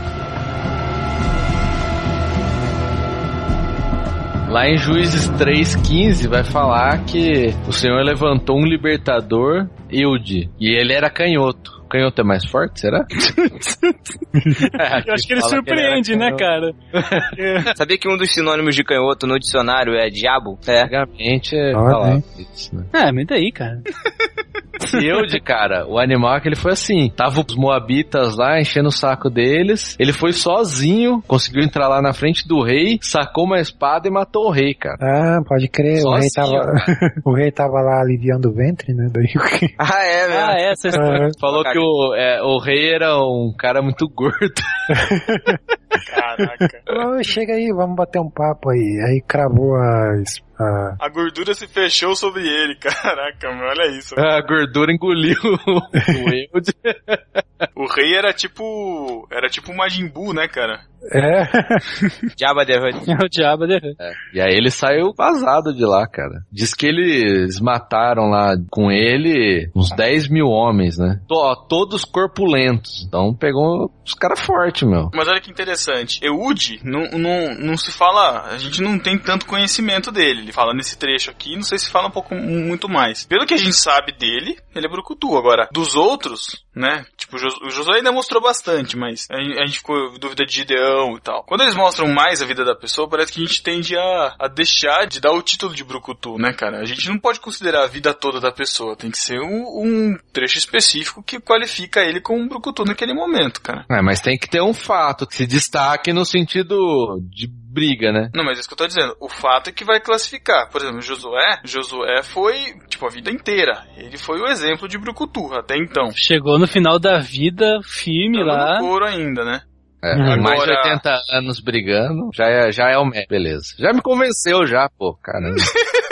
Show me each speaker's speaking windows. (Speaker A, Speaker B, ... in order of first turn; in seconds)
Speaker A: 4.5-13.1, 14.8-17.4, 20.8-22.9, 24.8-35.0, 35.9-36.9, 41.4-44.7, 54.2-57.6, 64.0-75.1, 103.9-108.3, 120.0-125.7
Speaker B: 13.1-17.7, 22.9-23.8, 24.9-25.3, 40.3-41.2, 63.1-64.0, 116.1-118.9
Speaker C: 17.7-20.9, 39.8-40.9, 41.4-41.8, 62.4-63.0
Speaker D: 21.7-22.2, 35.0-39.7, 40.9-41.3, 44.9-45.5, 46.9-51.0, 56.0-56.3, 61.1-61.8
Speaker E: 46.0-46.8, 51.0-54.2, 57.8-60.8, 75.1-103.8, 108.3-116.1, 118.3-119.6, 120.2-121.0